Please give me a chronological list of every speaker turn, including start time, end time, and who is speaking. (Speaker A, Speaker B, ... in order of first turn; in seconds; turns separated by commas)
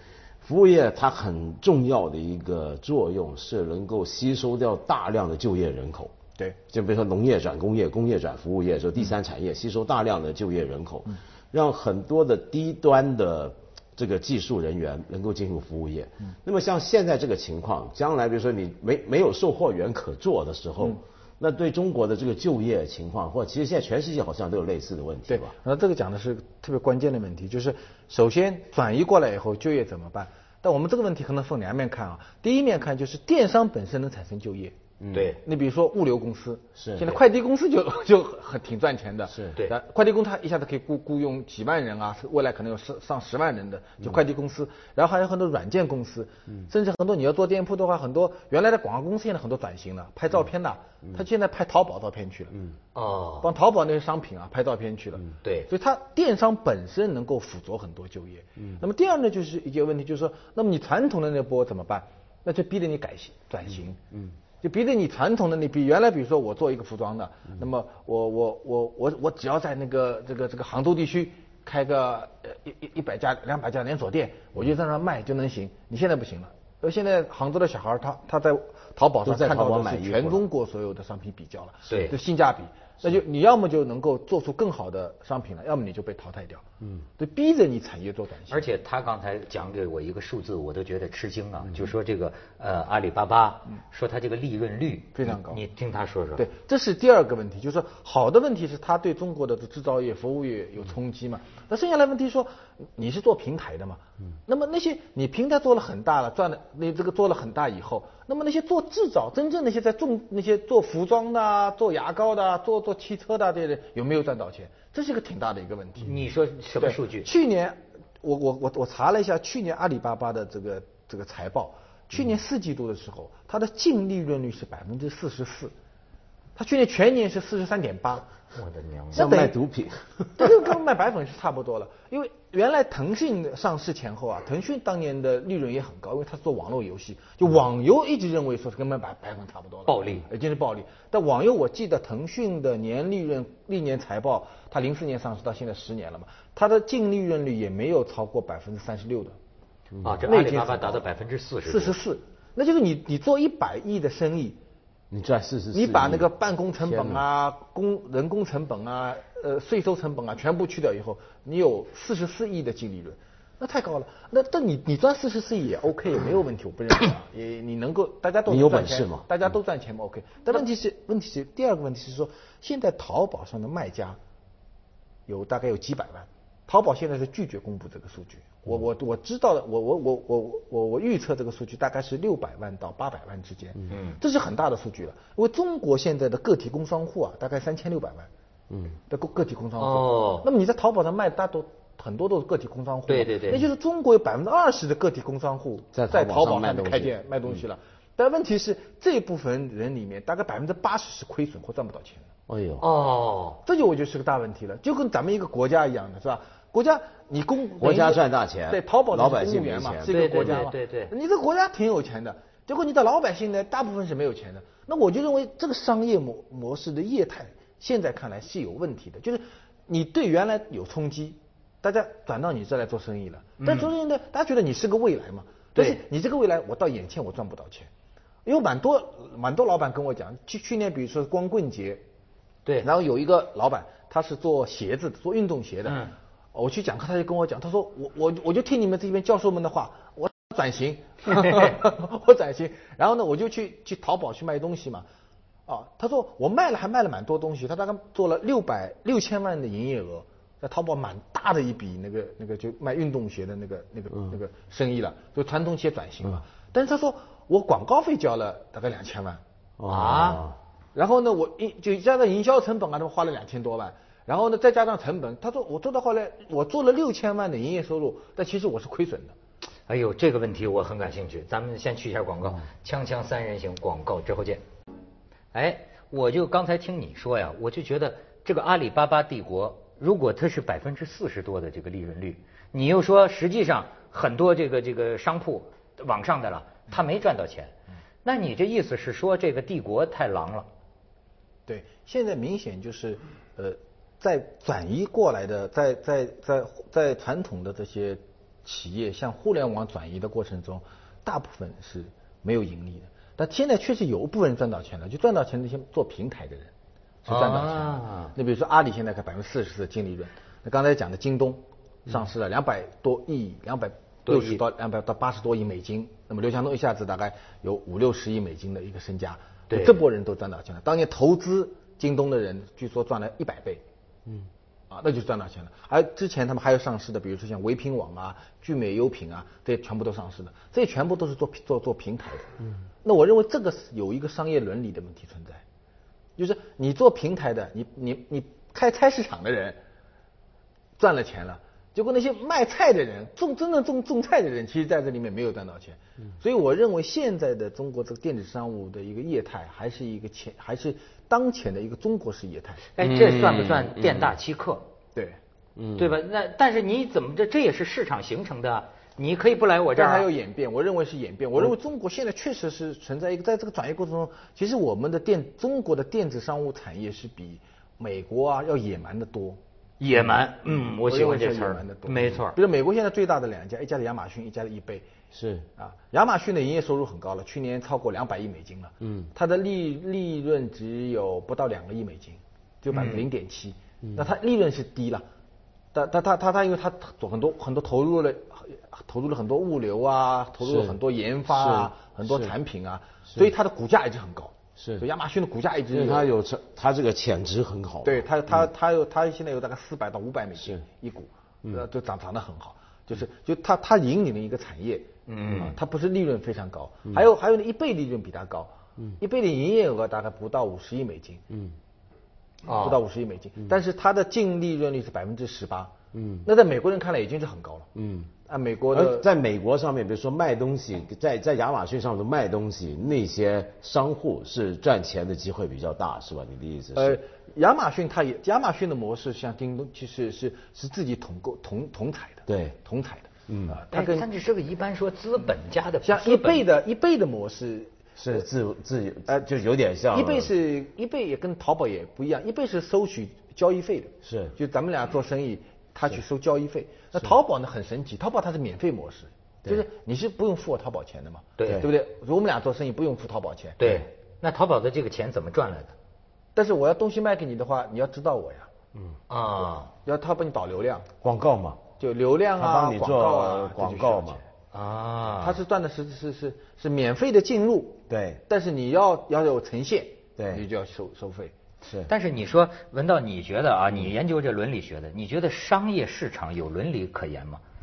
Speaker A: 0.4-6.1, Speaker A: 6.7-25.5, Speaker B: 25.3-34.7, Speaker A: 35.0-35.3, Speaker C: 35.1-35.4, Speaker B: 35.4-52.5, Speaker A: 36.8-37.2, Speaker C: 52.9-53.5, Speaker B: 53.4-64.0, Speaker C: 55.4-55.7, Speaker B: 64.6-86.6, Speaker A: 79.2-80.4, Speaker C: 81.9-82.1, Speaker B: 87.2-88.6, Speaker C: 88.5-96.4, Speaker B: 95.1-95.6, Speaker B: 96.4-116.2, Speaker C: 116.0-117.3, Speaker B: 116.8-125.7, Speaker B: 126.5-128.3, Speaker C: 128.5-129.2, Speaker B: 129.1-129.5, Speaker A: 129.1-130.7, Speaker B: 130.3-149.3, Speaker C: 139.9-140.2, Speaker A: 149.9-150.2, Speaker C: 150.0-152.0, Speaker B: 150.3-151.0, Speaker B: 151.7-154.6, Speaker A: 155.1-156.3, Speaker B: 155.7-174.2, Speaker A: 156.8-157.2, Speaker A: 168.5-169.3, Speaker B: 175.3-188.3, Speaker C: 183.9-184.2, Speaker A: 188.7-189.0, Speaker B: 189.1-202.3, Speaker C: 189.8-190.5, Speaker C: 193.1-193.7, Speaker A: 195.9-197.1, Speaker A: 202.5-202.8, Speaker C: 202.8-203.6, Speaker B: 203.6-227.9, Speaker A: 207.8-210.7, Speaker C: 210.1-211.1, Speaker C: 223.6-223.9, Speaker C: 225.8-226.0, Speaker B: 228.4-232.0, Speaker B: 232.8-245.1, Speaker C: 235.9-236.1, Speaker C: 241.4-241.7, Speaker B: 245.7-259.4, Speaker A: 259.8-260.6, Speaker C: 259.9-260.4, Speaker B: 260.9-269.3, Speaker C: 269.9-274.6, Speaker C: 275.5-290.7, Speaker B: 291.7-306.7, Speaker B: 307.2-323.8, Speaker C: 307.3-308.3, Speaker C: 314.3-314.6, Speaker C: 319.7-320.0, Speaker B: 324.9-335.6, Speaker B: 336.4-339.8, Speaker B: 341.0-352.8, Speaker C: 352.9-354.9, Speaker A: 353.0-354.4, Speaker A: 355.8-356.2, Speaker C: 356.0-360.3, Speaker B: 359.9-369.6, Speaker C: 370.0-372.6, Speaker B: 370.7-375.1, Speaker A: 375.3-375.7, Speaker B: 375.8-385.2, Speaker A: 379.0-379.3, Speaker C: 382.9-383.2, Speaker B: 385.9-396.3, Speaker A: 390.6-390.9, Speaker A: 391.5-392.5, Speaker A: 394.8-395.0, Speaker A: 395.9-398.2, Speaker B: 398.0-411.4, Speaker C: 405.3-405.7, Speaker C: 412.7-413.0, Speaker B: 412.8-415.9, Speaker A: 416.1-416.4, Speaker B: 416.4-417.9, Speaker A: 417.9-418.3, Speaker B: 418.5-419.3, Speaker A: 418.9-427.2, Speaker B: 426.9-434.3, Speaker A: 432.5-432.8, Speaker A: 433.5-433.8, Speaker C: 433.9-436.6, Speaker B: 436.0-438.4, Speaker A: 438.2-440.5, Speaker B: 440.1-453.8, Speaker A: 444.2-444.5, Speaker C: 451.6-451.9, Speaker C: 453.8-455.9, Speaker B: 456.6-458.7, Speaker C: 459.3-459.9, Speaker B: 460.0-461.1, Speaker A: 461.2-461.8, Speaker B: 462.0-464.4, Speaker A: 462.6-464.4, Speaker C: 464.7-465.6, Speaker B: 465.4-471.5, Speaker A: 468.1-468.4, Speaker A: 470.4-470.6, Speaker A: 471.8-472.1, Speaker C: 472.1-477.6